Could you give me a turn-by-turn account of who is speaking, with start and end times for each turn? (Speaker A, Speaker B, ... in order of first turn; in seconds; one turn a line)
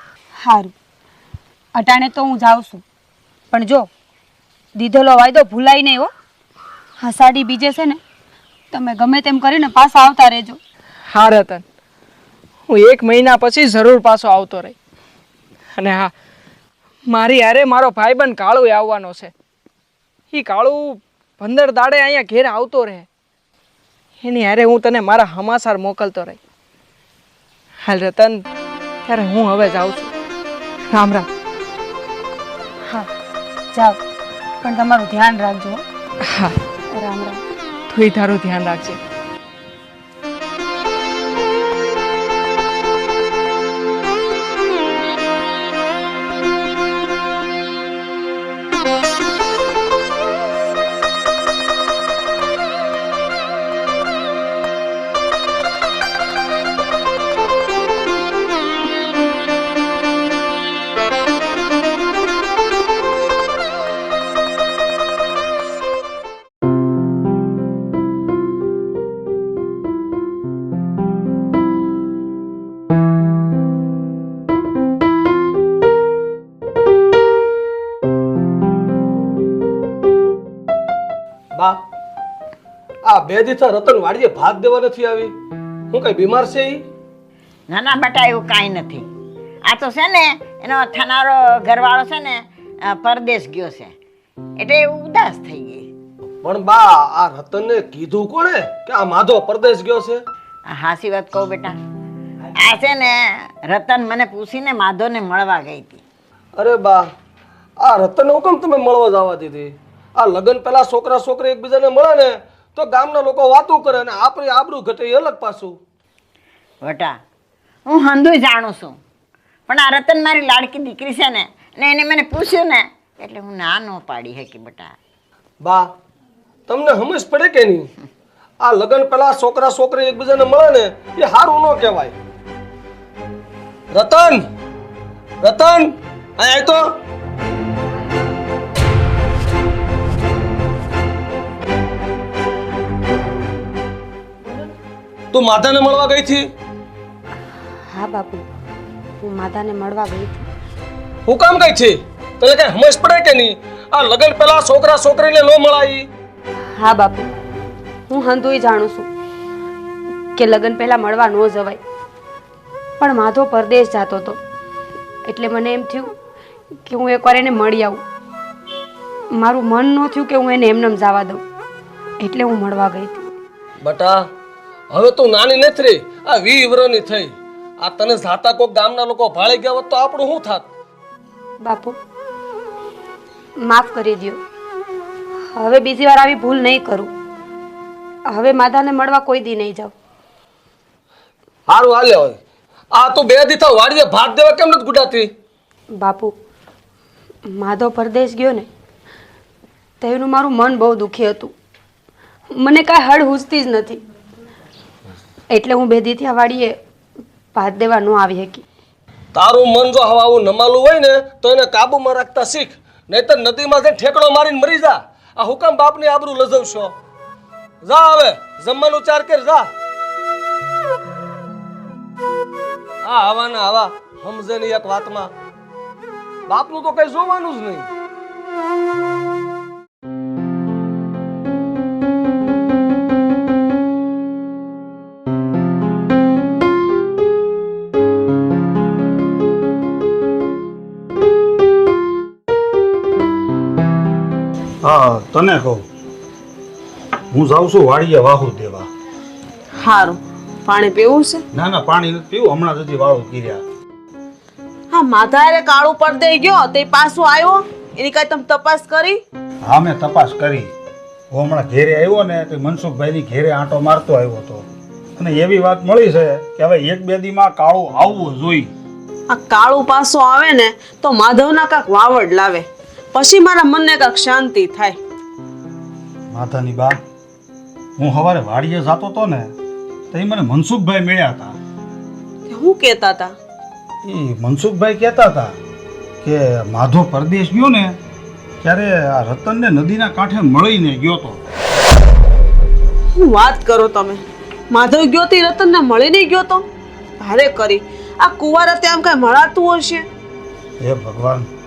Speaker A: 0.4-0.7
Speaker A: 1.7-2.8
Speaker A: 3.5-3.9
Speaker A: 4.7-6.1
Speaker A: 7.0-8.0
Speaker A: 8.7-10.6
Speaker B: 11.1-11.6
Speaker B: 12.7-14.7
Speaker B: 15.8-16.1
Speaker B: 17.1-19.3
Speaker B: 20.3-23.1
Speaker B: 24.2-26.4
Speaker B: 27.8-28.4
Speaker B: 29.0-30.1
Speaker B: 30.9-31.3
Speaker A: 33.7-34.0
Speaker A: 34.6-35.8
Speaker A: 36.9-37.4
Speaker B: 37.9-39.0
Speaker C: 83.0-85.3
Speaker C: 85.9-86.8
Speaker D: 87.7-89.0
Speaker D: 89.6-93.9
Speaker D: 94.6-95.8
Speaker C: 96.4-100.2
Speaker D: 100.7-101.8
Speaker D: 102.6-106.0
Speaker C: 106.5-107.0
Speaker C: 107.8-115.7
Speaker D: 116.8-117.2
Speaker D: 117.8-119.0
Speaker D: 119.7-124.9
Speaker C: 126.7-127.9
Speaker C: 128.6-132.1
Speaker C: 133.9-134.4
Speaker C: 135.4-136.8
Speaker C: 145.3-146.4
Speaker A: 147.9-148.4
Speaker A: 149.2-150.4
Speaker C: 151.3-156.1
Speaker A: 156.7-157.3
Speaker A: 158.1-159.1
Speaker A: 160.3-161.8
Speaker A: 163.0-164.4
Speaker A: 165.2-166.1
Speaker A: 166.8-168.0
Speaker A: 169.3-171.4
Speaker A: 172.2-173.3
Speaker C: 173.8-174.2
Speaker C: 174.9-180.7
Speaker A: 181.6-181.9
Speaker A: 183.6-184.4
Speaker A: 185.5-187.1
Speaker A: 188.3-189.9
Speaker C: 191.7-192.4
Speaker C: 192.9-195.3
Speaker A: 196.0-196.3
Speaker A: 197.5-198.7
Speaker A: 200.0-201.5
Speaker A: 202.5-204.0
Speaker A: 205.5-206.8
Speaker A: 207.5-208.6
Speaker C: 209.3-216.9
Speaker C: 217.8-219.7
Speaker C: 223.0-225.3
Speaker C: 226.5-227.9
Speaker E: 244.8-245.8
Speaker E: 247.3-248.9
Speaker F: 249.8-251.4
Speaker E: 251.5-253.6
Speaker F: 254.9-259.2
Speaker E: 259.6-260.7
Speaker E: 261.3-268.7
Speaker F: 269.3-275.0
Speaker E: 276.3-277.0
Speaker E: 278.0-279.5
Speaker E: 280.1-281.6
Speaker F: 282.5-283.3
Speaker E: 284.0-285.5
Speaker E: 286.2-288.0
Speaker E: 288.6-291.4
Speaker F: 293.1-296.6
Speaker F: 297.2-300.1
Speaker E: 300.8-301.5